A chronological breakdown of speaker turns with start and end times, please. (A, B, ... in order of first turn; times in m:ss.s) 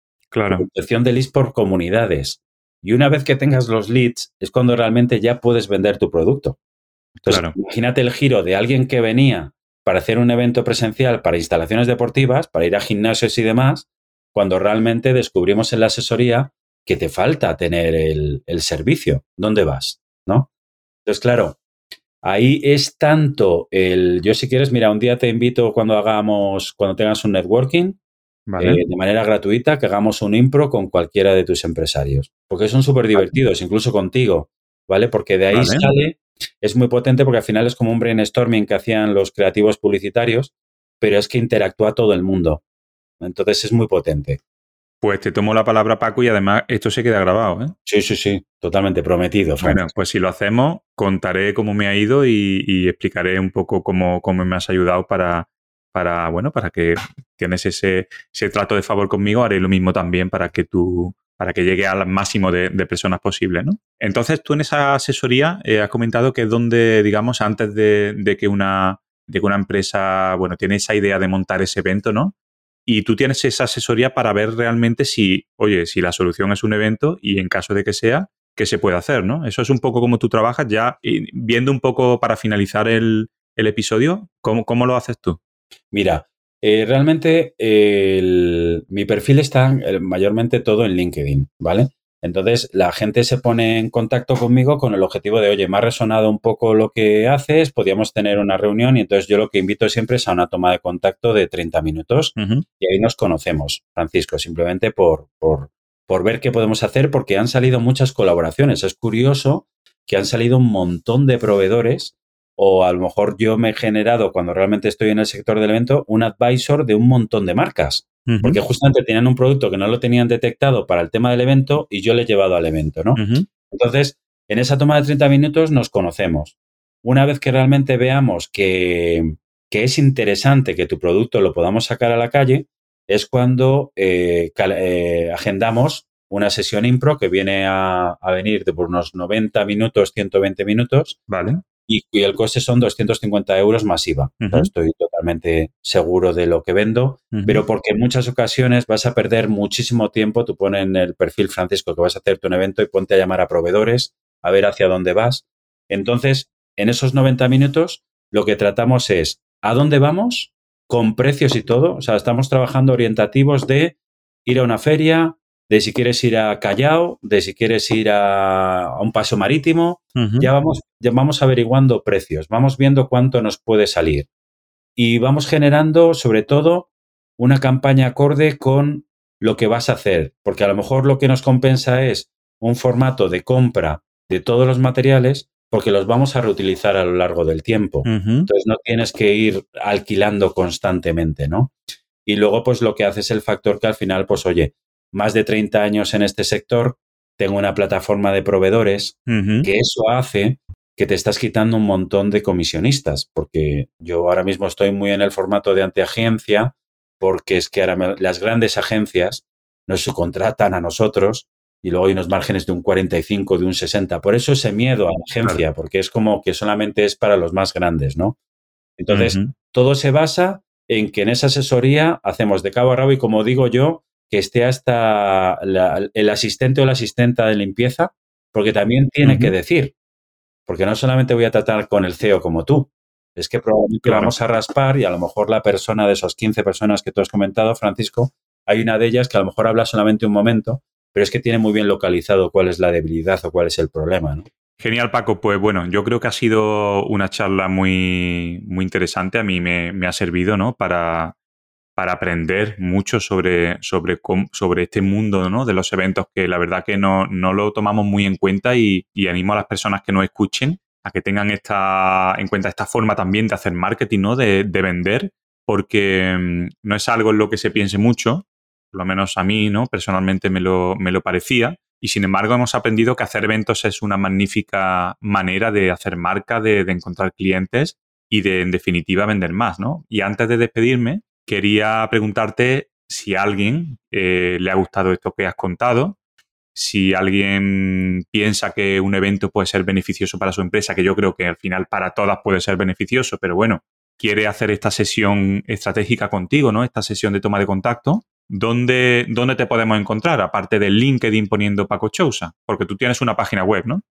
0:00.3-0:00.7 A
0:00.5-0:06.6 B
0:07.2-0:07.6 A
0:07.3-0:20.5 B
0:21.1-0:21.6 B
0:22.2-0:28.0 B
0:28.5-0:28.8 A
0:28.6-0:42.6 B
0:35.5-0:35.9 A
0:43.2-0:44.4 B
0:45.0-0:47.7 A
0:47.9-0:49.8 B
0:49.6-1:12.3 A
1:12.9-1:25.4 A
1:25.9-2:21.2 B
1:42.4-1:42.6 A
1:58.3-1:58.6 A
2:03.2-2:03.5 A
2:21.3-2:21.6 A
2:21.9-2:54.3 B
2:24.4-2:24.7 A
2:27.3-2:27.6 A
2:50.2-2:50.5 A
2:55.0-3:11.7 B
3:08.0-3:08.5 A
3:12.2-3:38.4 B
3:19.3-3:19.7 A
3:39.0-3:49.9 B
3:39.1-3:39.5 A
3:49.2-3:49.5 A
3:50.7-4:04.5 B
3:54.0-3:54.3 A
4:04.8-4:11.4 A
4:12.0-4:46.2 A
4:46.8-5:04.0 A